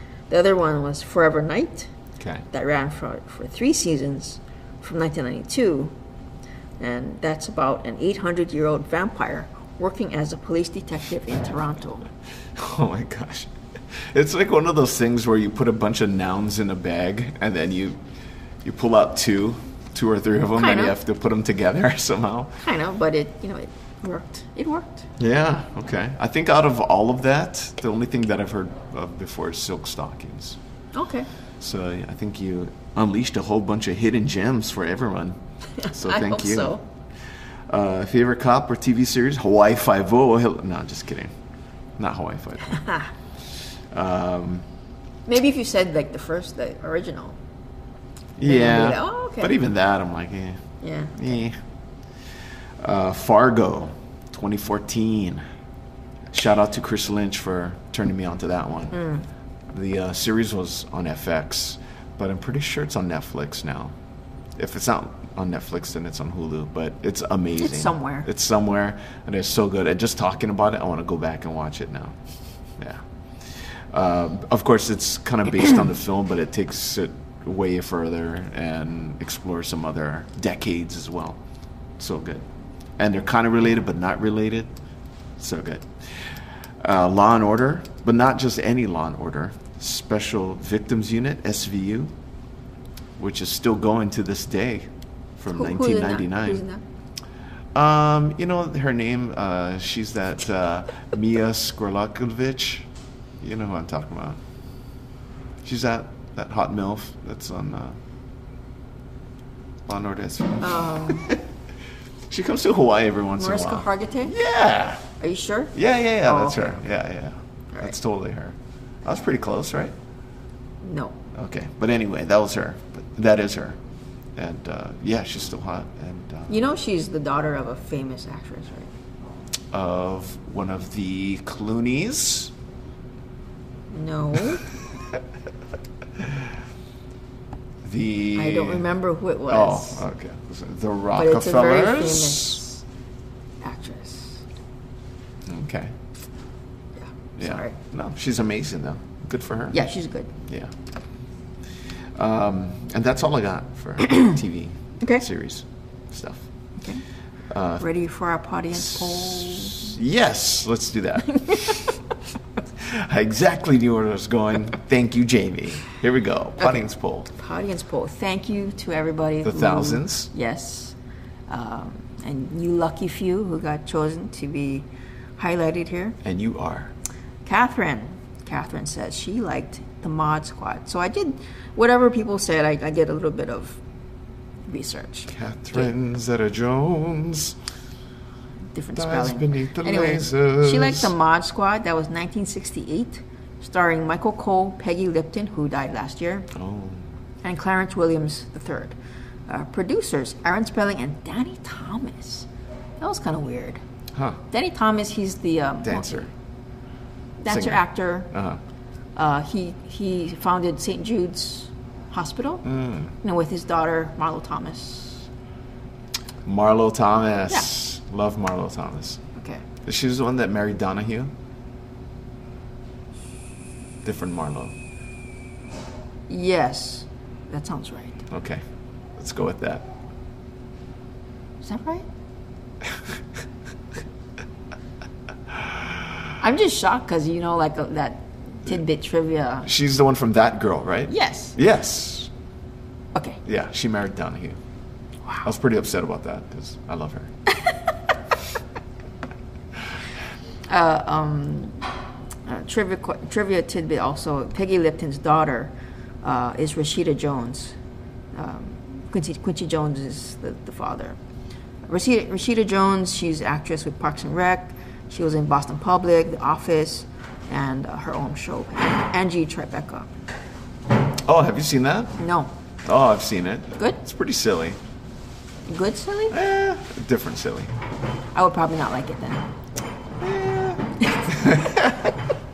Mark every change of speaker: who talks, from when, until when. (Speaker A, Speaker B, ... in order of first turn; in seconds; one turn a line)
Speaker A: 0.3-1.9
Speaker B: 2.2-2.4
Speaker A: 2.5-5.9
Speaker A: 6.8-12.1
Speaker B: 12.5-18.0
Speaker B: 18.6-22.6
Speaker A: 20.6-20.9
Speaker A: 22.6-25.1
Speaker B: 25.2-30.6
Speaker A: 30.9-31.3
Speaker B: 31.6-35.4
Speaker A: 35.8-36.8
Speaker B: 35.9-36.8
Speaker B: 37.7-41.3
Speaker B: 42.0-42.8
Speaker A: 42.7-43.1
Speaker B: 43.9-44.6
Speaker A: 45.3-47.4
Speaker B: 48.4-50.6
Speaker A: 48.4-49.5
Speaker A: 50.8-51.1
Speaker B: 51.1-51.6
Speaker B: 52.8-55.4
Speaker B: 56.3-59.0
Speaker A: 58.9-59.2
Speaker B: 59.7-63.9
Speaker B: 64.5-72.2
Speaker A: 67.6-68.3
Speaker B: 72.8-81.4
Speaker B: 82.0-82.4
Speaker B: 83.0-84.7
Speaker B: 85.4-86.3
Speaker B: 86.8-92.1
Speaker B: 93.2-96.6
Speaker A: 95.5-96.8
Speaker B: 97.7-102.9
Speaker B: 103.4-104.4
Speaker B: 105.6-108.0
Speaker B: 109.9-111.4
Speaker A: 110.6-111.3
Speaker B: 112.3-115.0
Speaker A: 113.4-114.3
Speaker A: 115.2-116.8
Speaker B: 115.7-119.9
Speaker A: 120.8-121.2
Speaker B: 121.3-123.8
Speaker B: 124.3-126.6
Speaker A: 126.5-128.9
Speaker B: 129.7-132.5
Speaker A: 133.9-134.6
Speaker B: 136.2-136.5
Speaker B: 137.8-138.9
Speaker A: 138.3-140.0
Speaker B: 139.5-142.6
Speaker A: 141.1-142.8
Speaker A: 143.6-144.4
Speaker B: 145.4-146.0
Speaker A: 147.0-147.8
Speaker B: 147.4-149.9
Speaker A: 149.7-150.3
Speaker B: 150.5-150.7
Speaker B: 152.1-156.4
Speaker A: 154.0-154.3
Speaker A: 155.0-155.2
Speaker B: 157.5-157.8
Speaker A: 157.8-160.0
Speaker B: 158.7-161.9
Speaker A: 161.3-161.8
Speaker B: 162.8-167.3
Speaker A: 166.6-170.9
Speaker B: 169.4-170.3
Speaker A: 171.5-174.9
Speaker A: 175.4-176.2
Speaker B: 176.2-176.9
Speaker A: 177.4-183.8
Speaker A: 184.7-185.9
Speaker B: 185.3-187.6
Speaker A: 188.7-196.5
Speaker B: 188.9-191.1
Speaker B: 196.5-197.1
Speaker A: 197.4-198.9
Speaker A: 199.5-202.5
Speaker A: 203.0-203.8
Speaker B: 204.1-204.4
Speaker A: 204.5-206.3
Speaker B: 205.8-206.3
Speaker A: 207.4-208.3
Speaker B: 207.5-208.6
Speaker A: 209.2-212.6
Speaker B: 212.6-213.1
Speaker A: 213.2-215.3
Speaker B: 216.4-219.2
Speaker A: 219.3-219.6
Speaker B: 219.8-221.3
Speaker B: 224.0-224.7
Speaker A: 226.3-228.2
Speaker B: 228.3-228.6
Speaker B: 229.2-229.9
Speaker A: 231.6-232.1
Speaker B: 235.5-235.9
Speaker A: 236.4-239.7
Speaker B: 239.6-242.3
Speaker A: 241.1-241.6
Speaker A: 243.1-243.4
Speaker B: 243.4-244.6
Speaker B: 245.4-247.3
Speaker A: 250.7-251.9
Speaker A: 252.4-257.8
Speaker A: 258.3-261.2
Speaker A: 261.9-270.1
Speaker B: 271.2-272.2
Speaker A: 272.2-272.5
Speaker B: 272.8-274.8
Speaker A: 275.7-276.4
Speaker B: 276.3-277.7
Speaker A: 278.3-279.5
Speaker B: 280.2-282.1
Speaker A: 281.0-281.3